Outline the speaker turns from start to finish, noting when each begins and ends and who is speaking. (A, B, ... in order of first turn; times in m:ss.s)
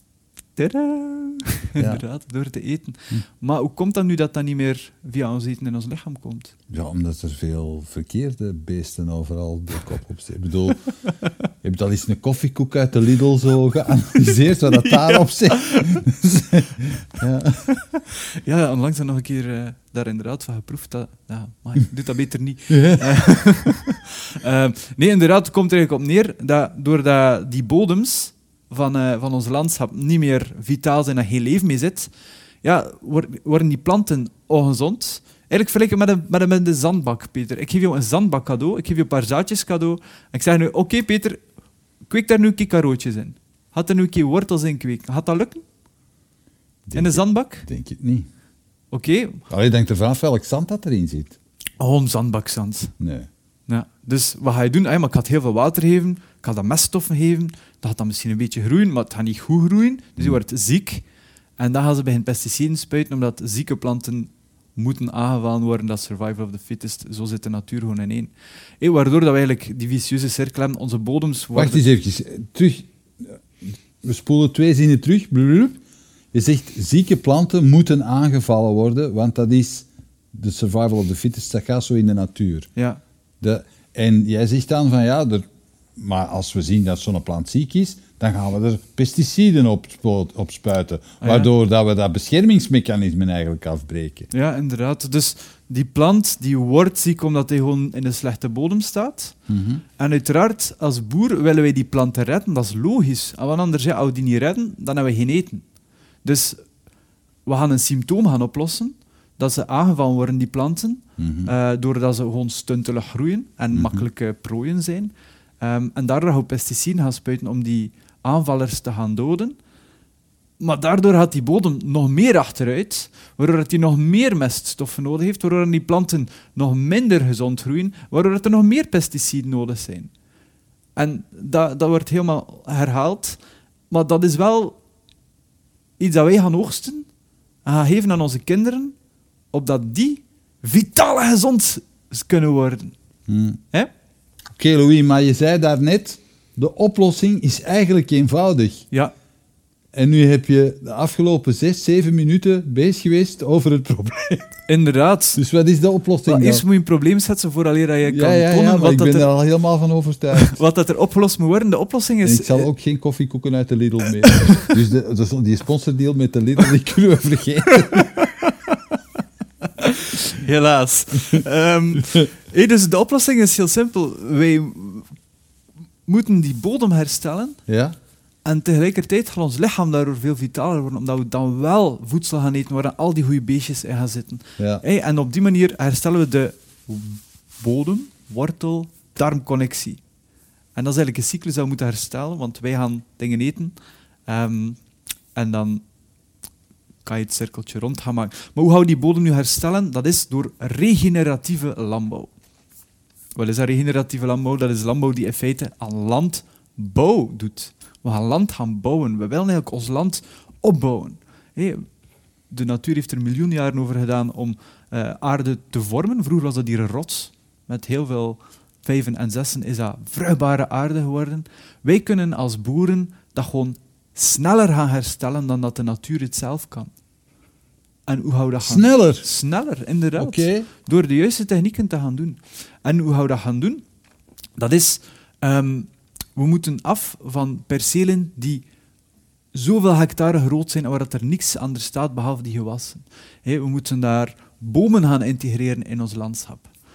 0:00.6-0:06.5 A
0:01.8-0:02.0 B
0:06.7-0:10.8 B
0:11.6-0:17.6 B
0:14.7-0:16.0 A
0:17.7-0:32.1 A
0:22.7-0:23.4 B
0:32.6-0:41.4 A
0:42.1-0:45.6 A
0:46.9-0:48.3 B
0:46.9-0:47.7 A
0:48.9-0:49.4 A
0:49.5-0:51.4 B
0:51.8-0:52.9 A
0:53.0-0:53.3 B
0:53.7-1:01.0 A
1:01.6-1:11.8 A
1:11.5-1:13.3 B
1:14.0-1:15.8 B
1:16.3-1:22.7 B
1:22.8-1:23.0 A
1:23.4-1:25.4 B
1:26.0-1:34.3 B
1:31.2-1:31.5 A
1:34.3-1:39.4 A
1:39.5-1:39.8 B
1:40.0-1:45.6 A
1:46.2-1:46.6 A
1:47.4-1:59.6 A
1:51.2-1:51.5 B
1:53.7-1:54.0 B
2:00.6-2:10.1 A
2:11.0-2:13.4 A
2:13.9-2:14.8 A
2:16.0-2:17.0 A
2:17.6-2:18.9 A
2:19.5-2:22.9 A
2:23.3-2:23.6 B
2:24.5-2:28.8 B
2:29.9-2:34.5 B
2:34.7-2:35.4 A
2:35.4-2:36.6 B
2:36.3-2:39.3 A
2:38.1-2:40.6 B
2:40.3-2:42.7 A
2:42.2-2:48.2 B
2:44.2-2:44.7 A
2:47.9-2:48.8 A
2:49.8-2:55.1 A
2:56.1-2:57.6 A
2:57.7-2:57.9 B
2:58.4-3:10.0 A
3:04.6-3:04.8 B
3:10.7-3:13.7 A
3:14.3-3:14.8 A
3:15.3-3:15.8 A
3:17.0-3:22.3 A
3:23.4-3:31.8 A
3:32.5-3:46.9 A
3:48.1-3:53.8 A
3:48.6-3:49.2 B
3:50.2-3:50.7 B
3:54.6-3:58.6 A
3:59.5-4:06.7 A